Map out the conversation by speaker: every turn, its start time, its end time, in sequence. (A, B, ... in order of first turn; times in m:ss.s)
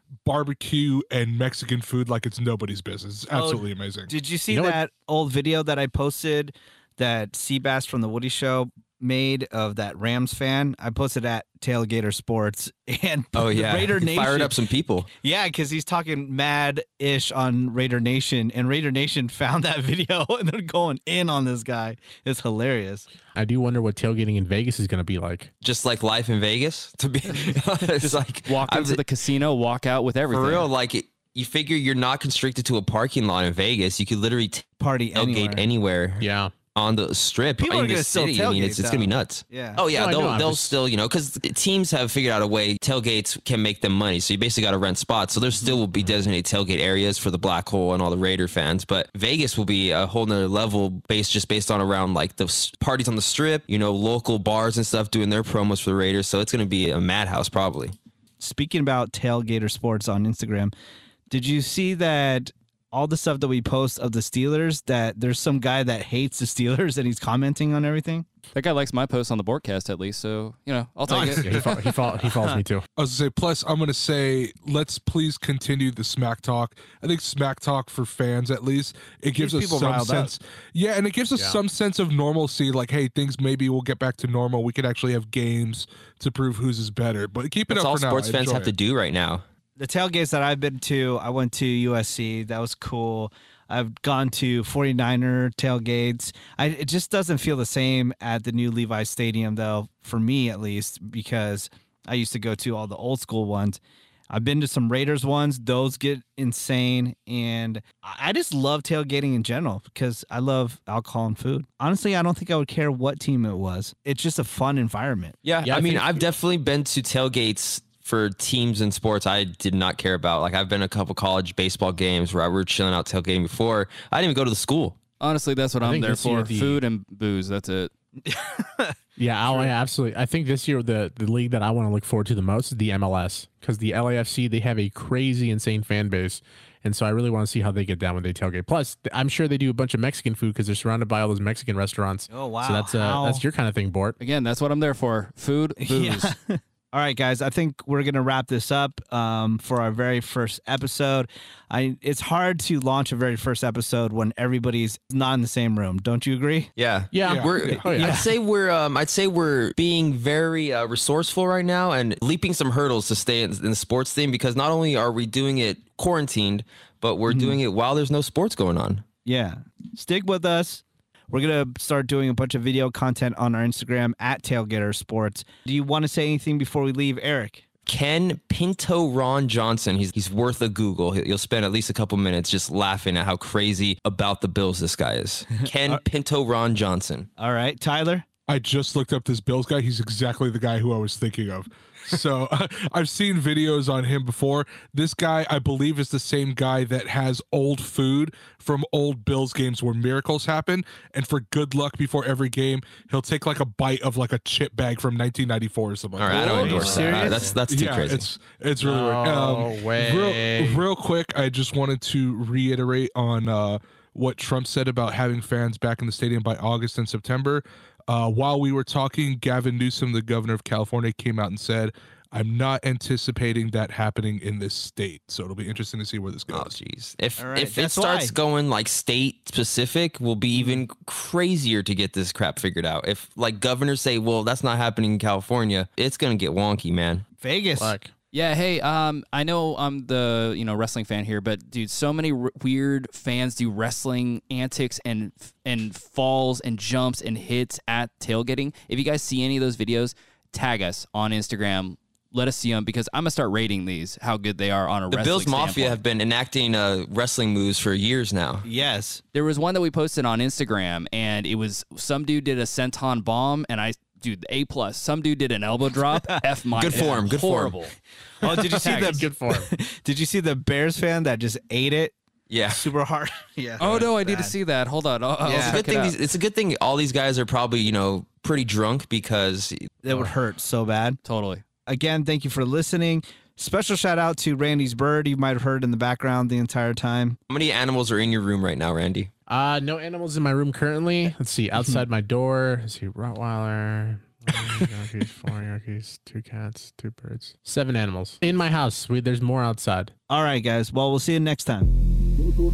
0:00.2-0:04.1 A
0:03.3-0:14.5 B
0:04.5-0:04.8 C
0:13.3-0:15.1 D
0:15.2-0:23.0 B
0:23.3-0:25.5 C
0:25.6-0:29.0 D
0:28.0-0:30.7 E
0:30.3-0:57.9 D
0:34.8-0:35.6 B
0:36.2-0:36.5 C
0:37.6-0:39.8 B
0:39.9-0:40.7 C
0:58.4-1:00.7 B
1:01.3-1:08.2 B
1:08.5-1:12.0 E
1:11.1-1:12.6 B
1:11.1-1:12.8 C
1:13.0-1:28.7 A
1:19.4-1:20.4 B
1:27.7-1:29.4 D
1:29.8-1:55.4 B
1:55.4-2:05.0 D
1:55.6-1:56.2 C
2:05.2-2:07.9 E
2:05.8-2:06.8 C
2:08.2-2:09.7 B
2:09.2-2:24.2 C
2:22.3-2:23.4 B
2:24.2-2:26.3 E
2:25.8-2:36.7 B
2:36.8-2:49.0 D
2:37.1-2:38.2 C
2:37.2-2:37.9 A
2:38.0-2:38.2 B
2:47.3-2:47.6 B
2:49.2-2:57.6 B
2:57.9-3:07.3 D
3:07.4-3:08.2 B
3:08.5-3:46.7 A
3:26.2-3:28.2 D
3:26.3-3:27.5 B
3:26.5-3:27.5 C
3:28.8-3:30.8 C
3:46.5-3:57.2 D
3:47.4-3:48.3 B
3:50.5-3:50.8 B
3:57.4-3:58.0 B
3:57.8-3:58.1 C
3:58.3-4:16.0 E
4:15.1-4:18.6 D
4:18.6-4:19.2 B
4:19.3-4:27.9 E
4:26.8-4:27.8 D
4:28.4-4:32.1 B
4:28.4-4:29.7 C
4:28.8-4:29.1 E
4:32.5-4:32.9 D
4:32.7-4:34.5 B
4:33.8-4:36.2 E
4:35.4-4:35.8 B
4:35.6-4:39.9 D
4:40.0-4:41.2 B
4:41.2-4:41.6 E
4:41.8-4:47.4 B
4:47.5-4:49.3 D
4:49.5-5:00.1 C
5:00.3-5:01.9 B